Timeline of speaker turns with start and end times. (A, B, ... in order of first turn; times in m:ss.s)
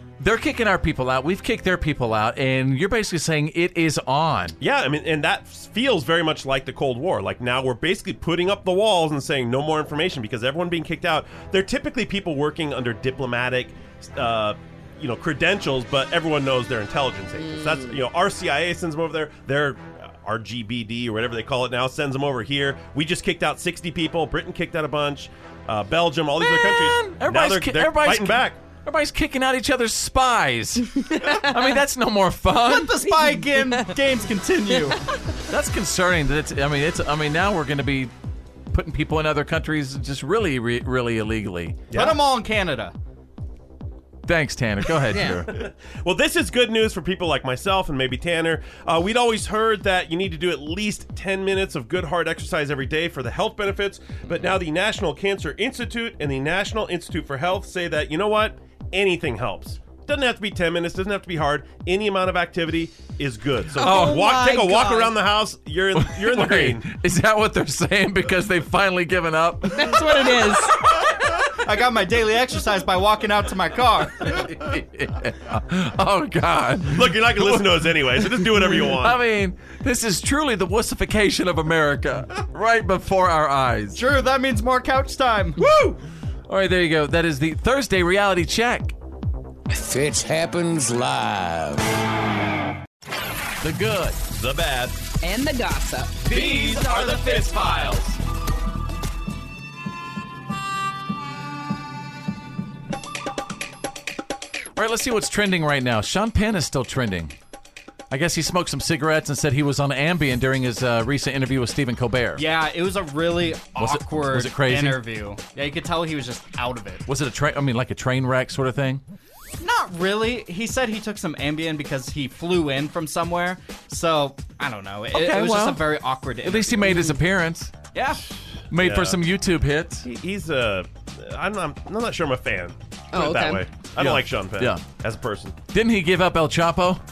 0:00.2-0:04.6 A
0:04.6-0:28.6 B
0:17.5-0:17.8 C
0:26.4-0:32.9 A
0:31.1-0:31.8 C
0:32.7-0:35.0 D
0:33.0-0:33.9 C
0:35.5-0:38.1 A
0:38.7-0:41.8 A
0:41.9-0:42.2 B
0:41.9-0:42.9 D
0:44.2-0:45.6 A
0:45.5-1:06.9 B
1:03.8-1:05.2 C
1:03.8-1:04.2 A
1:05.9-1:10.5 A
1:09.7-1:10.8 C
1:11.6-1:14.4 D
1:14.2-1:24.0 A
1:16.9-1:19.2 B
1:23.9-1:25.6 D
1:25.6-1:28.9 A
1:29.7-1:31.8 E
1:33.6-1:34.2 A
1:34.3-1:35.0 B
1:35.2-1:36.3 C
1:36.2-1:38.2 A
1:36.5-1:37.0 B
1:44.8-1:47.3 A
1:48.1-1:52.4 A
1:52.4-1:57.0 D
1:53.8-1:55.0 A
1:57.1-1:59.0 A
1:59.6-2:07.2 D
2:05.1-2:07.7 A
2:07.9-2:08.2 D
2:08.7-2:10.0 A
2:08.7-2:09.2 B
2:10.0-2:15.6 B
2:13.1-2:13.6 C
2:14.0-2:14.8 A
2:15.7-2:17.0 A